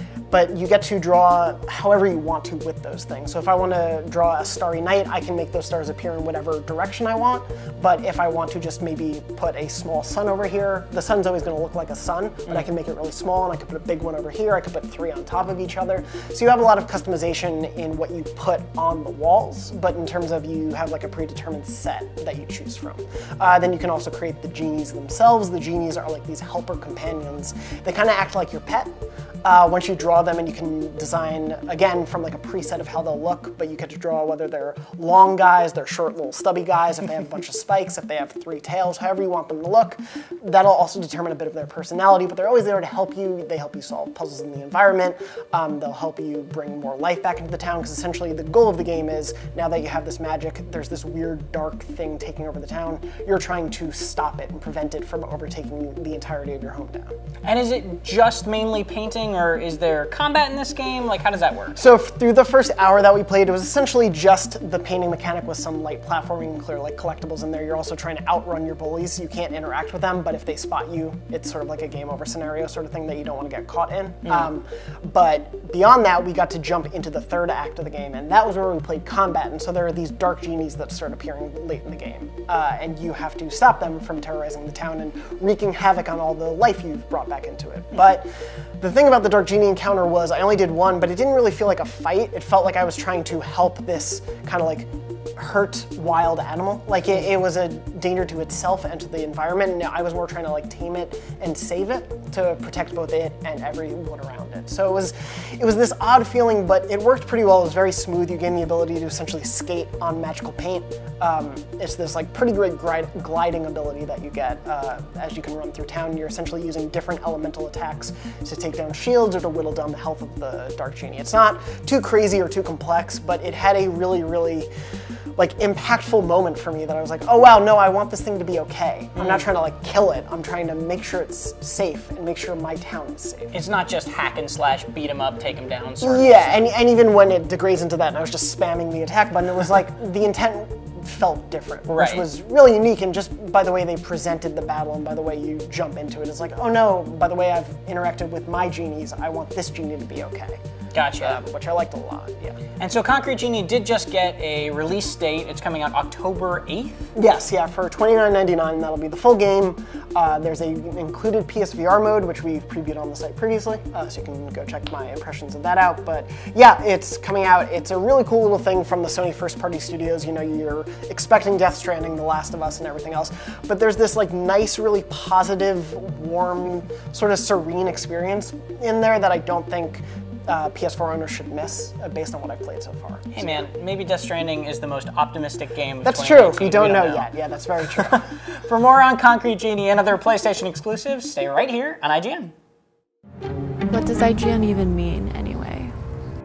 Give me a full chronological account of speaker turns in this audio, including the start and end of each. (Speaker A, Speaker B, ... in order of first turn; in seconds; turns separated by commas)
Speaker A: 0.3-28.9, Speaker A: 29.4-57.1, Speaker B: 57.4-61.8, Speaker A: 61.8-88.3, Speaker B: 74.2-74.5, Speaker A: 88.8-124.7, Speaker A: 125.3-133.5, Speaker B: 129.1-129.5, Speaker B: 133.5-136.6, Speaker A: 136.0-152.6, Speaker B: 141.9-142.2, Speaker B: 150.9-151.4, Speaker B: 152.8-157.1, Speaker A: 157.1-183.6, Speaker B: 183.3-187.3, Speaker A: 186.0-188.2, Speaker B: 188.0-192.5, Speaker C: 193.9-195.9